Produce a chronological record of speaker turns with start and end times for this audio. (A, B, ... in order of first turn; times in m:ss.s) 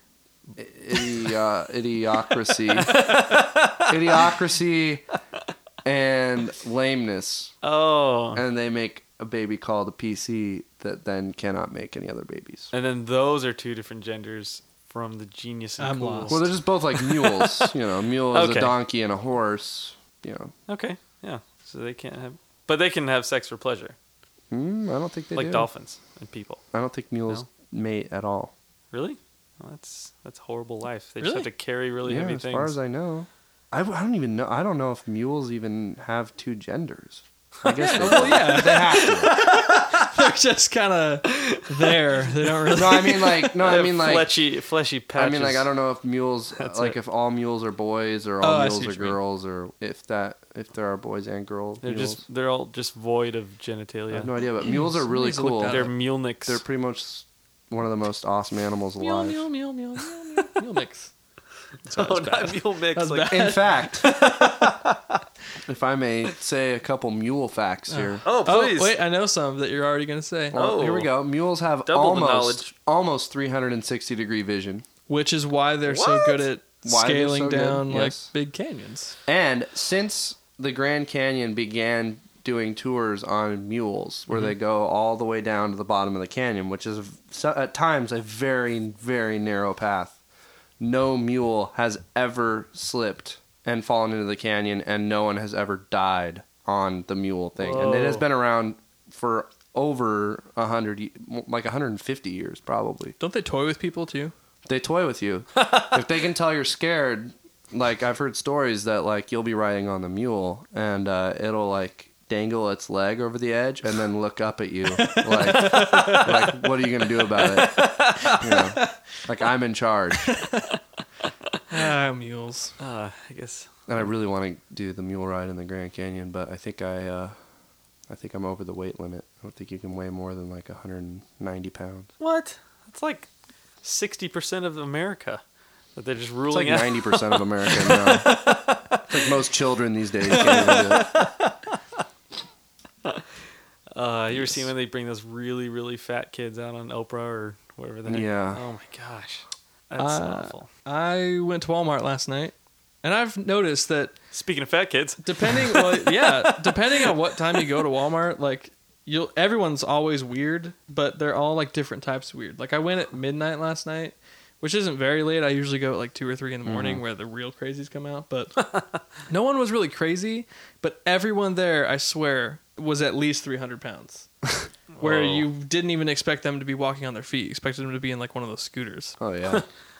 0:00.6-0:03.2 A
0:02.7-0:04.3 B
0:03.9-0:05.0 A
0:05.8-0:07.5 A
0:07.6-0:08.4 B
0:08.3-0:12.7 A
0:12.7-0:17.7 B
0:15.8-0:16.4 C
0:16.3-0:20.5 A
0:18.3-0:18.8 B
0:20.7-0:24.0 B
0:24.5-0:25.7 A
0:25.3-0:26.6 B
0:26.7-0:28.5 A
0:28.9-0:32.8 B
0:31.2-0:31.5 C
0:32.0-0:39.4 A
0:37.8-0:43.5 C
0:37.9-0:38.5 B
0:41.3-0:42.2 B
0:42.7-0:44.3 A
0:43.6-0:45.7 B
0:45.2-0:52.2 A
0:46.6-0:47.0 B
0:48.4-0:49.2 C
0:51.8-0:54.3 B
0:54.1-0:55.9 A
0:54.6-0:55.9 C
0:55.7-0:56.6 B
0:56.4-0:59.5 A
0:59.0-1:01.1 C
1:01.8-1:04.8 B
1:01.9-1:04.8 C
1:03.3-1:04.1 A
1:05.7-1:08.2 A
1:07.9-1:10.6 C
1:08.2-1:09.0 B
1:10.5-1:14.8 A
1:10.5-1:11.1 B
1:11.9-1:12.7 B
1:15.1-1:19.2 C
1:15.9-1:16.5 B
1:16.8-1:18.3 A
1:19.3-1:30.2 A
1:30.8-1:43.2 A
1:37.6-1:38.2 B
1:43.2-1:44.3 C
1:44.7-2:00.4 A
1:55.0-1:56.3 C
1:55.9-1:56.3 B
1:57.4-1:58.3 B
1:58.2-1:58.9 C
2:00.4-2:00.6 C
2:01.7-2:02.8 C
2:02.8-2:03.7 B
2:03.9-2:07.4 A
2:08.1-2:12.1 A
2:12.2-2:13.3 B
2:13.8-2:15.4 B
2:16.0-2:19.3 B
2:16.5-2:18.3 A
2:19.1-2:21.1 A
2:20.3-2:21.3 B
2:21.0-2:21.3 C
2:23.9-2:30.7 B
2:28.1-2:28.6 A
2:30.0-2:34.2 C
2:34.3-2:37.6 B
2:35.2-2:48.5 C
2:46.6-2:47.0 A
2:48.6-2:49.0 B
2:49.3-2:54.3 C
2:54.9-2:55.5 B
2:55.0-2:59.2 C
2:59.2-2:59.6 A